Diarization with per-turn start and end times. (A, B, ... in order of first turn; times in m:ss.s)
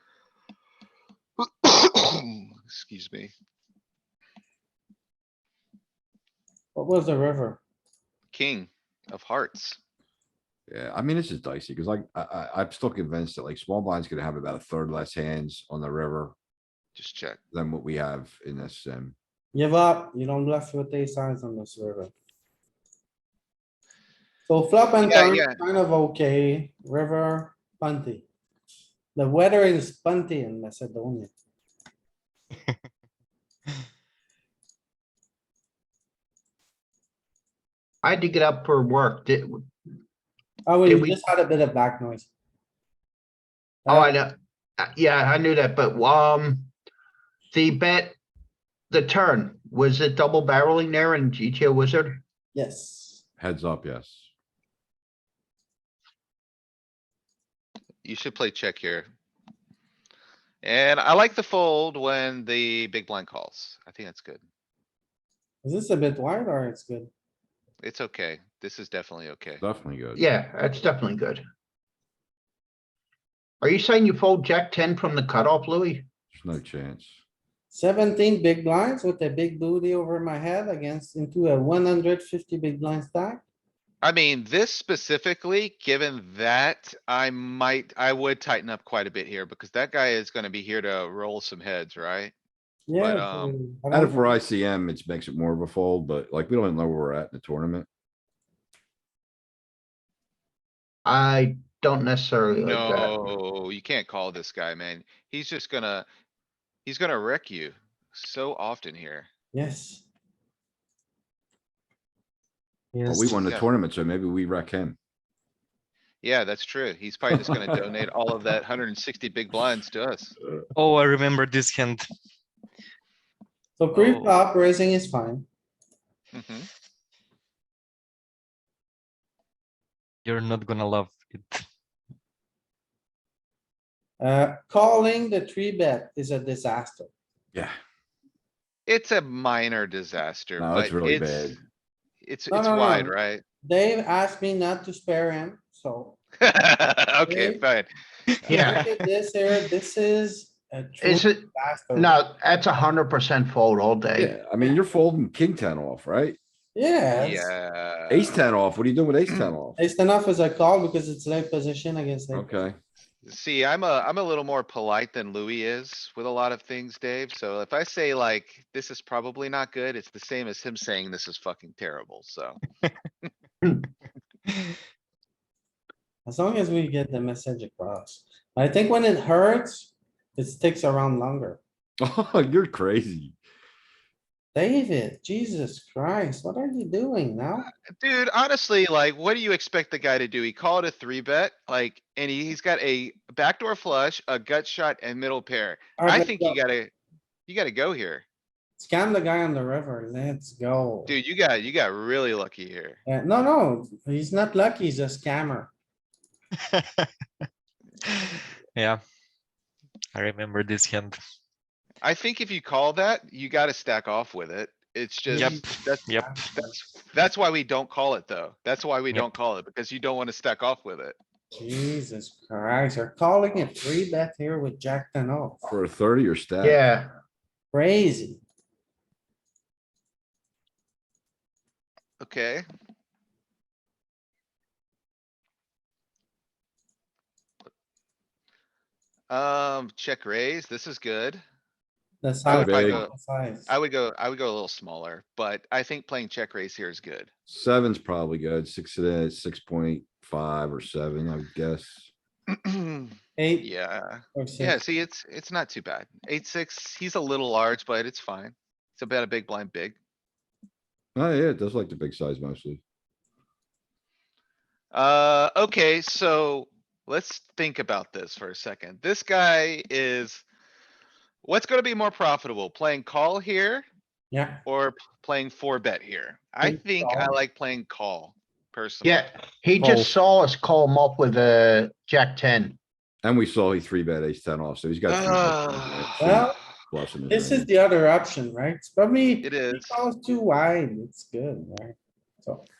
0:01.6-0:03.3 A
0:06.7-0:07.6 B
0:08.3-0:09.8 A
0:10.7-0:16.3 C
0:17.0-0:17.4 A
0:17.5-0:19.1 C
0:19.5-0:22.1 B
0:24.5-0:28.3 B
0:25.0-0:25.6 A
0:29.2-0:31.3 B
0:38.0-0:39.7 D
0:40.6-0:42.3 B
0:40.8-0:41.2 D
0:43.8-0:44.1 B
0:43.9-0:46.7 D
0:47.5-0:48.2 D
0:48.9-0:52.2 D
0:52.5-0:53.2 B
0:53.4-0:54.2 C
0:58.0-0:59.1 A
1:00.6-1:04.4 A
1:05.6-1:07.1 B
1:07.8-1:09.6 A
1:09.6-1:10.2 C
1:10.2-1:11.4 D
1:13.6-1:16.0 D
1:16.3-1:17.2 C
1:17.7-1:23.4 B
1:24.0-1:32.3 A
1:32.9-1:34.3 B
1:33.0-1:33.6 A
1:33.9-1:37.9 C
1:41.0-1:43.3 D
1:42.6-1:46.1 A
1:46.8-1:49.3 A
1:49.5-1:50.0 B
1:52.9-1:53.4 B
1:53.0-1:55.0 C
1:53.3-1:53.6 A
1:56.2-2:00.3 A
2:00.8-2:02.0 E
2:03.8-2:05.5 B
2:03.9-2:04.3 E
2:06.3-2:06.7 A
2:10.2-2:11.6 E
2:14.2-2:17.1 B
2:18.9-2:21.5 A
2:20.6-2:21.6 C
2:22.2-2:23.4 A
2:22.5-2:26.2 B
2:26.4-2:27.9 A
2:27.3-2:27.6 B
2:28.4-2:28.8 A
2:28.5-2:28.8 D
2:28.5-2:32.2 B
2:31.0-2:34.3 D
2:34.1-2:36.4 C
2:36.8-2:37.5 B
2:37.2-2:38.4 A
2:38.1-2:39.8 C
2:39.8-2:42.5 B
2:42.3-2:42.8 C
2:43.2-2:52.6 A
2:56.2-3:01.6 B
3:02.0-3:03.4 C
3:04.5-3:07.7 B
3:08.0-3:16.9 A
3:16.0-3:16.6 B
3:17.4-3:18.2 A
3:18.8-3:21.1 B
3:21.1-3:23.0 A
3:23.1-3:25.7 B
3:26.7-3:27.1 E
3:28.7-3:29.0 E
3:30.1-3:31.2 E
3:32.0-3:41.2 A
3:35.3-3:36.7 B
3:35.3-3:36.3 E
3:41.5-3:45.6 B
3:45.6-3:46.8 C
3:46.6-3:47.1 D
3:47.7-3:48.4 B
3:52.2-3:52.6 A
3:59.3-4:01.4 A
4:02.2-4:03.7 B
4:02.5-4:03.1 A
4:02.5-4:03.0 C
4:03.7-4:07.3 A
4:07.5-4:12.1 C
4:12.5-4:20.0 A
4:13.4-4:13.7 B
4:14.3-4:14.8 B
4:21.1-4:22.8 C
4:24.9-4:30.4 A
4:31.4-4:33.8 A
4:34.3-4:34.6 B
4:34.6-4:39.2 A
4:36.6-4:37.4 B
4:39.0-4:42.8 D
4:39.8-4:40.1 B
4:43.2-4:47.7 C
4:45.1-4:46.4 A
4:46.2-4:46.6 B
4:47.3-4:52.6 B
4:49.4-4:50.0 A